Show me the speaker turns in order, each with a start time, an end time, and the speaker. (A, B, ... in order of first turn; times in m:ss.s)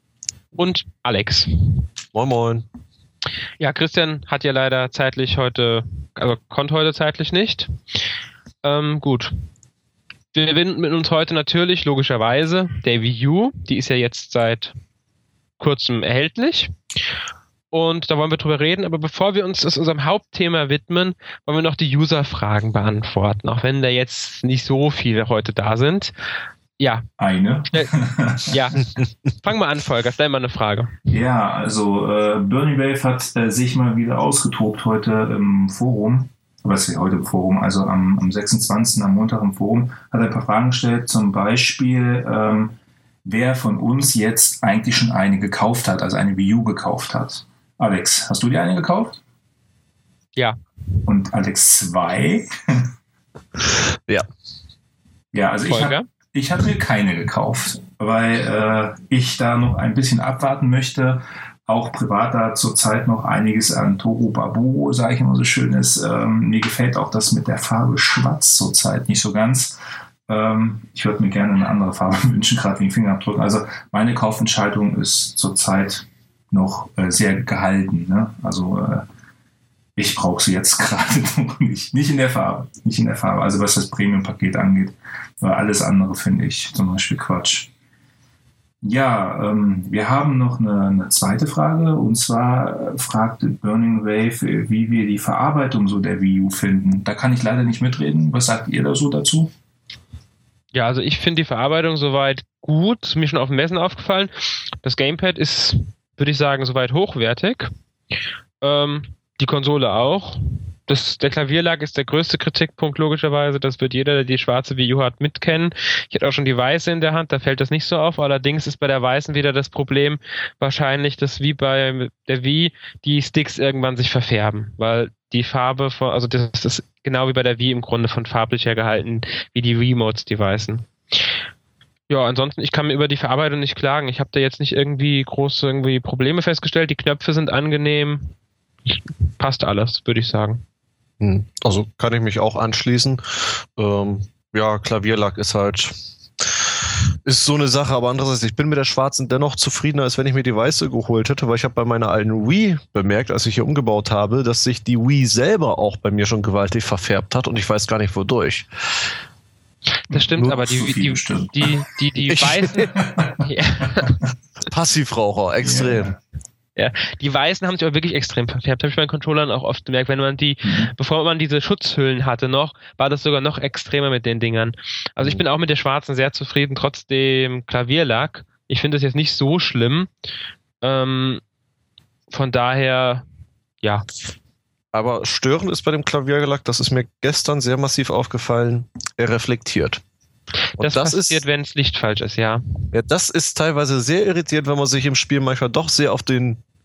0:00.5-0:01.5 A
0:02.1-0:02.6 B
0:03.6-0:07.7 A
0:08.6-0:09.3 A
0:10.3-0:14.8 A
0:15.6-0:16.7 A
0:17.7-0:26.1 A
0:26.8-0:27.1 A
0:27.2-0:28.6 C
0:28.5-0:28.9 A
0:29.4-0:31.0 A
0:31.1-0:49.2 C
0:51.0-0:52.8 C
0:53.8-0:54.3 B
0:55.3-1:19.1 C
0:55.6-0:56.0 A
1:20.0-1:27.7 C
1:28.8-1:39.5 C
1:40.7-1:44.3 A
1:44.8-1:47.7 A
1:48.6-2:10.9 A
2:12.1-2:18.3 A
2:19.4-2:20.6 A
2:21.2-2:39.0 B
2:40.1-2:42.9 A
2:40.1-2:41.7 C
2:42.3-2:42.9 B
2:42.9-2:43.4 C
2:43.4-2:44.2 A
2:44.7-2:46.1 B
2:45.6-2:46.2 C
2:46.8-3:00.1 A
2:50.6-2:50.9 C
3:00.8-3:01.4 A
3:02.3-3:03.2 A
3:04.9-3:10.0 B
3:10.8-3:11.4 B
3:10.8-3:12.9 A
3:12.9-3:16.6 B